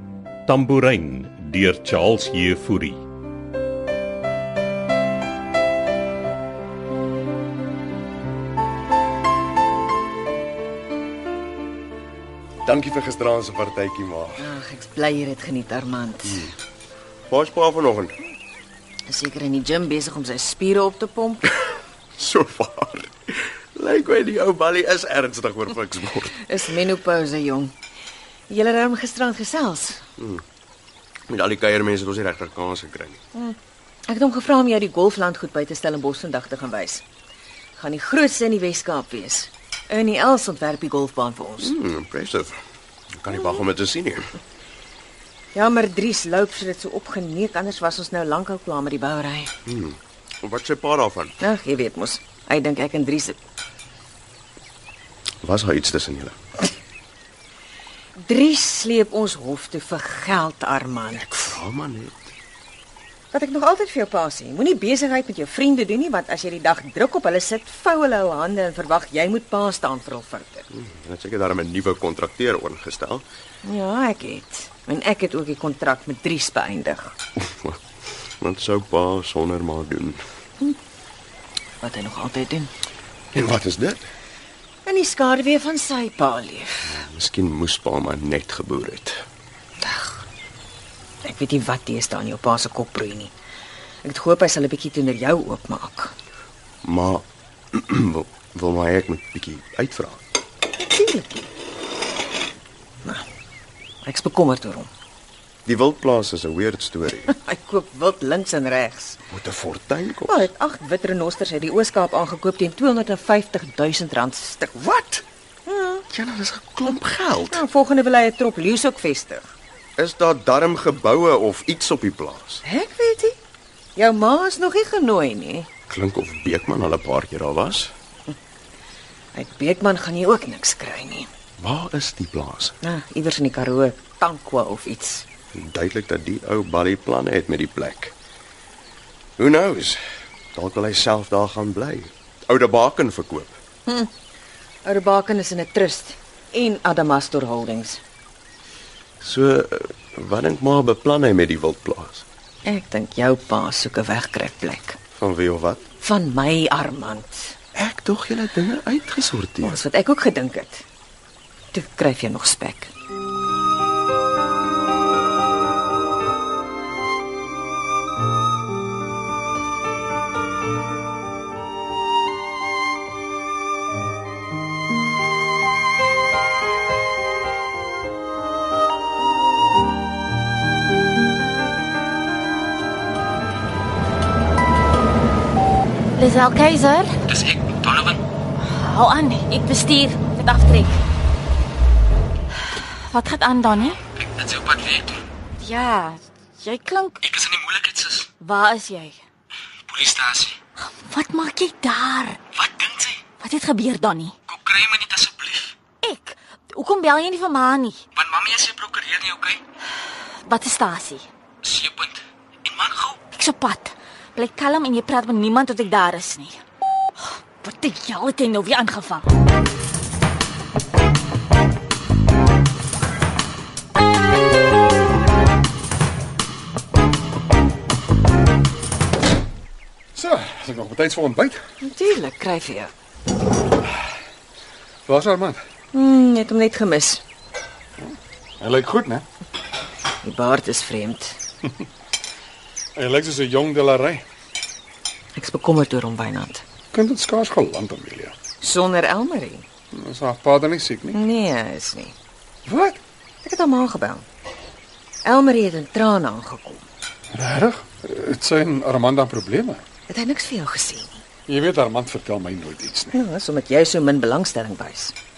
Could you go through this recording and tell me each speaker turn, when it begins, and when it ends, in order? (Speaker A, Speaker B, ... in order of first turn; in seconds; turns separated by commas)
Speaker A: 0.5-3.0, Speaker B: 12.6-14.4, Speaker C: 14.4-16.5, Speaker B: 17.3-18.2, Speaker C: 19.1-21.6, Speaker B: 22.2-26.4, Speaker C: 26.4-27.7, Speaker C: 28.5-30.1, Speaker B: 30.2-30.4, Speaker B: 31.3-33.2, Speaker C: 34.1-37.0, Speaker C: 37.8-41.7, Speaker B: 41.6-42.6, Speaker B: 43.1-44.3, Speaker C: 45.5-49.5, Speaker B: 49.7-51.4, Speaker C: 51.4-53.4, Speaker B: 55.4-56.4, Speaker C: 58.2-61.5, Speaker B: 61.4-62.3, Speaker C: 63.3-70.7, Speaker B: 70.7-73.2, Speaker C: 73.6-77.1, Speaker B: 77.4-77.8, Speaker B: 78.4-80.2, Speaker C: 81.8-82.7, Speaker B: 83.3-84.1, Speaker C: 84.8-86.9, Speaker B: 86.9-89.2, Speaker C: 89.8-90.2, Speaker C: 91.2-93.3, Speaker C: 94.0-96.1, Speaker B: 96.8-100.2, Speaker C: 100.8-101.5, Speaker C: 104.0-104.9, Speaker B: 105.7-107.3, Speaker C: 107.3-109.2, Speaker B: 109.3-110.5, Speaker C: 110.3-116.0, Speaker B: 116.1-117.6, Speaker C: 117.4-119.5, Speaker B: 120.0-122.6, Speaker C: 122.6-123.4, Speaker C: 124.0-125.7, Speaker B: 125.9-127.9, Speaker C: 129.3-131.3, Speaker B: 131.6-132.8, Speaker C: 132.8-135.3, Speaker B: 135.5-138.1, Speaker B: 139.4-140.0, Speaker B: 140.5-143.6, Speaker C: 144.8-148.0, Speaker B: 149.2-152.2, Speaker C: 152.6-155.0, Speaker B: 155.2-155.8, Speaker C: 156.0-157.6, Speaker B: 157.8-159.8, Speaker C: 159.6-160.8, Speaker C: 161.7-162.9, Speaker D: 186.2-187.2, Speaker E: 187.3-188.2, Speaker D: 188.6-191.0, Speaker D: 192.7-194.0, Speaker E: 194.3-195.1, Speaker D: 195.6-197.2, Speaker E: 197.2-198.2, Speaker D: 198.4-199.2, Speaker E: 199.9-200.5, Speaker D: 200.8-202.4, Speaker E: 202.6-203.1, Speaker D: 203.4-204.3, Speaker E: 204.5-205.7, Speaker D: 206.0-208.0, Speaker E: 208.2-209.6, Speaker D: 210.4-211.2, Speaker E: 211.6-213.2, Speaker D: 213.3-216.6, Speaker D: 217.6-219.3, Speaker F: 230.1-231.6, Speaker C: 231.8-232.9, Speaker F: 235.1-235.6, Speaker C: 235.9-237.2, Speaker F: 238.6-239.2, Speaker C: 240.2-241.4, Speaker F: 242.9-244.2, Speaker C: 245.4-246.6, Speaker F: 246.9-248.3, Speaker C: 248.6-249.7, Speaker F: 249.9-251.2, Speaker C: 251.1-252.1, Speaker F: 252.7-253.0, Speaker C: 253.4-254.2, Speaker C: 255.2-256.8, Speaker F: 257.3-259.8, Speaker C: 260.1-261.2, Speaker F: 261.5-263.2, Speaker C: 263.1-265.1